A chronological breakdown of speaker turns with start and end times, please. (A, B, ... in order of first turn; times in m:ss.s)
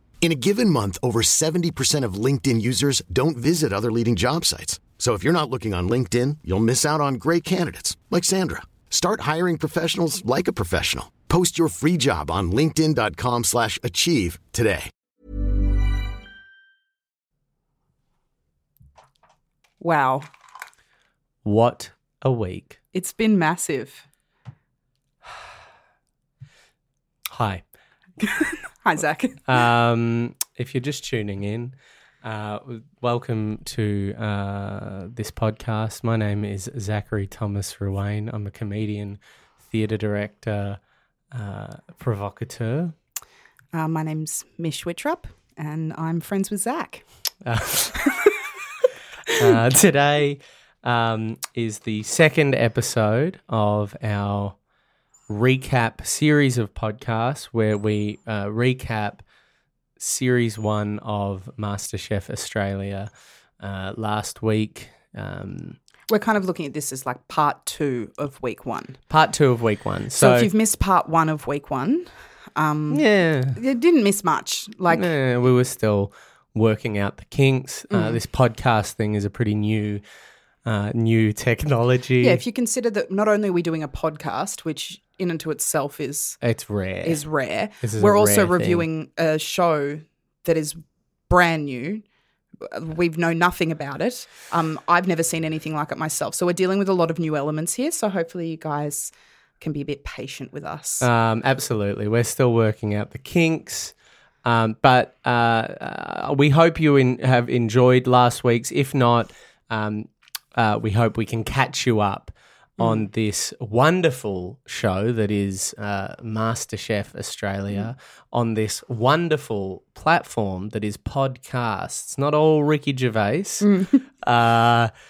0:00.2-0:14.9 A
0:19.8-0:20.2 B
0:21.4-0:22.8 C
0:22.9-0:24.0 B
0:27.3-0:27.6 C
0:28.2-0:29.6 B
0:29.5-0:39.2 C
0:39.7-0:40.8 C
0:41.3-0:42.9 C
0:43.7-0:47.0 B
0:47.4-0:48.0 C
0:49.4-0:54.6 C
0:55.3-0:59.2 C
1:00.0-1:03.1 C
1:03.6-1:05.8 C
1:06.1-1:09.0 B
1:09.1-1:10.5 C
1:10.1-1:13.0 B
1:12.9-1:13.6 C
1:13.5-1:15.1 B
1:14.9-1:20.0 C
1:17.9-1:18.2 B
1:20.6-1:22.4 C
1:22.2-1:26.4 B
1:26.4-1:27.2 C
1:27.0-1:32.0 B
1:27.8-1:28.8 C
1:32.6-1:41.1 B
1:41.0-2:03.7 C
2:03.6-2:04.0 B
2:04.2-2:04.9 C